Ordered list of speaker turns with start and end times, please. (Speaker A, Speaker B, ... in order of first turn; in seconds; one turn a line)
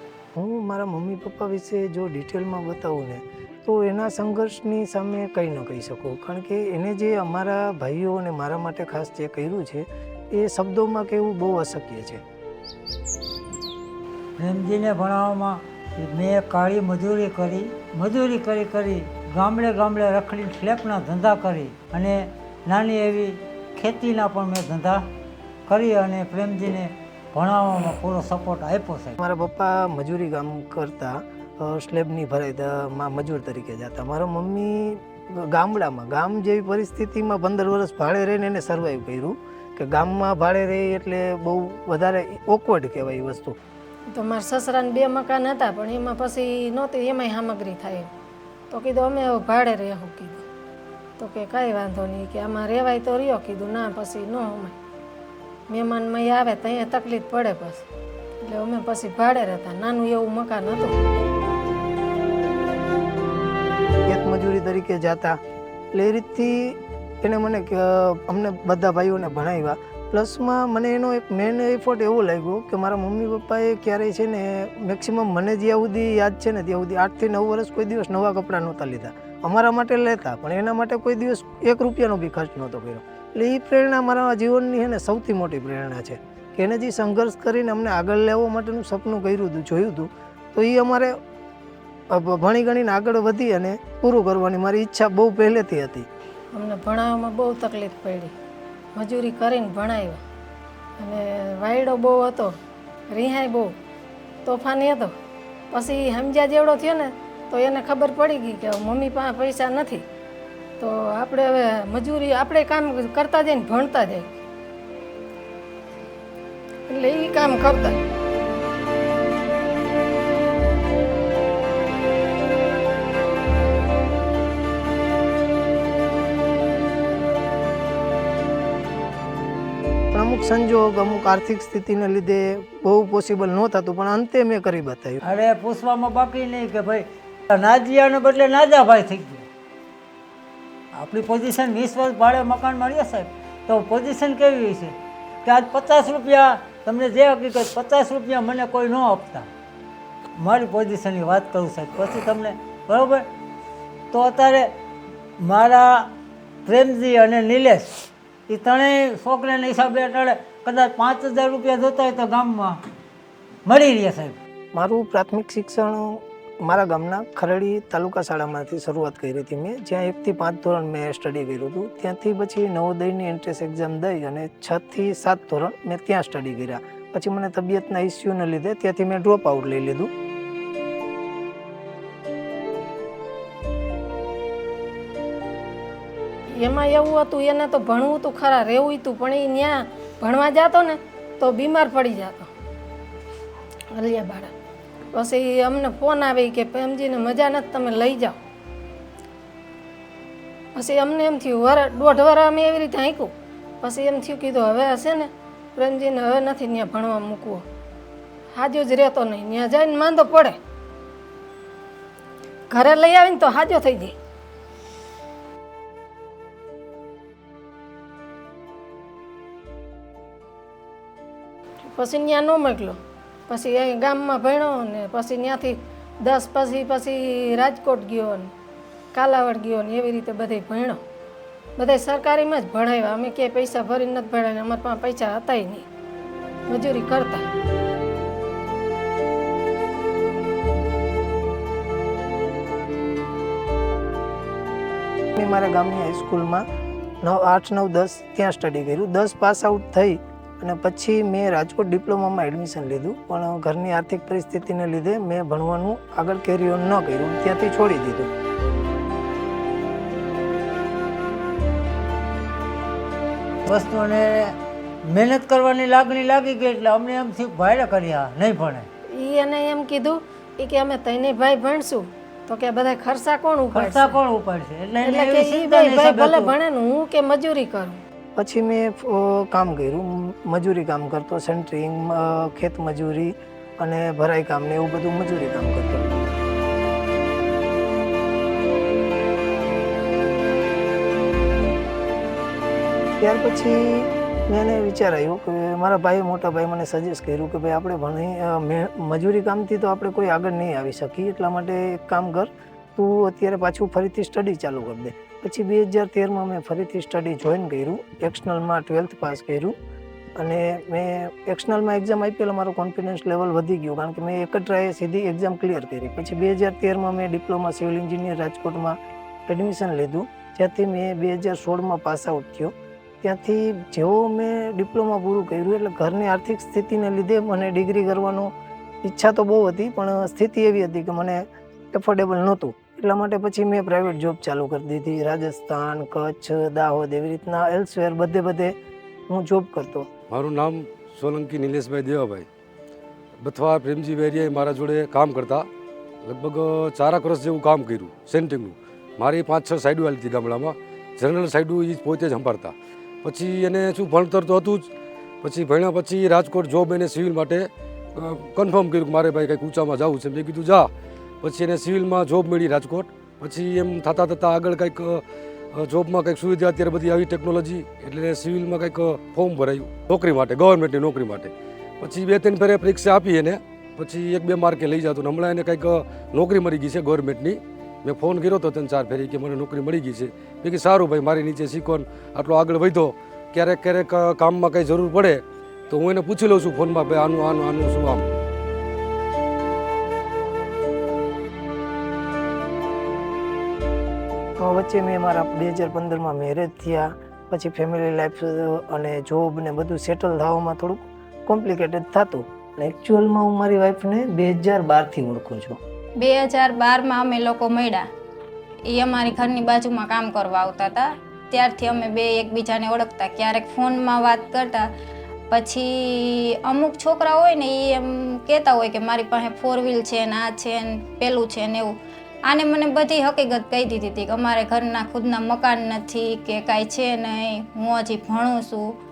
Speaker A: 0.3-12.2
Speaker B: 14.4-25.1
Speaker B: 25.7-29.2
Speaker A: 29.2-43.6
Speaker C: 44.1-48.1
Speaker C: 48.7-50.5
Speaker C: 51.2-54.8
Speaker C: 55.7-57.8
Speaker C: 58.5-61.0
Speaker A: 64.1-65.4
Speaker A: 65.9-91.1
Speaker A: 92.1-96.1
Speaker C: 96.5-98.3
Speaker C: 99.0-100.2
Speaker C: 101.0-102.5
Speaker C: 103.1-103.7
Speaker C: 104.5-105.1
Speaker C: 105.7-110.0
Speaker C: 110.8-114.4
Speaker C: 116.9-118.0
Speaker A: 130.1-135.2
Speaker B: 135.2-139.5
Speaker B: 141.0-149.5
Speaker B: 150.4-153.3
Speaker B: 154.1-154.7
Speaker B: 155.4-156.1
Speaker B: 156.7-162.8
Speaker B: 163.7-164.4
Speaker A: 164.7-180.1
Speaker C: 186.6-192.5
Speaker C: 193.9-194.5
Speaker C: 195.1-198.4
Speaker C: 200.8-207.6
Speaker C: 208.5-210.6
Speaker C: 212.7-214.2
Speaker C: 221.9-223.0
Speaker C: 223.5-228.5
Speaker C: 229.1-231.0
Speaker C: 231.8-235.9
Speaker C: 236.7-237.4
Speaker A: 245.4-246.7
Speaker A: 247.2-258.3
Speaker B: 263.7-264.6
Speaker B: 265.1-268.9
Speaker C: 269.1-274.1
Speaker B: 273.7-276.5
Speaker C: 275.0-278.0
Speaker A: 278.4-286.1
Speaker A: 293.2-309.7
Speaker A: 310.4-328.5
Speaker A: 329.0-338.8
Speaker A: 339.3-340.1
Speaker D: 340.3-342.5
Speaker D: 343.4-345.7
Speaker D: 346.2-354.9
Speaker D: 355.4-360.9
Speaker D: 361.4-365.2
Speaker D: 365.7-388.2
Speaker A: 394.6-405.8
Speaker E: 406.2-408.1
Speaker E: 408.9-414.9
Speaker E: 415.5-429.0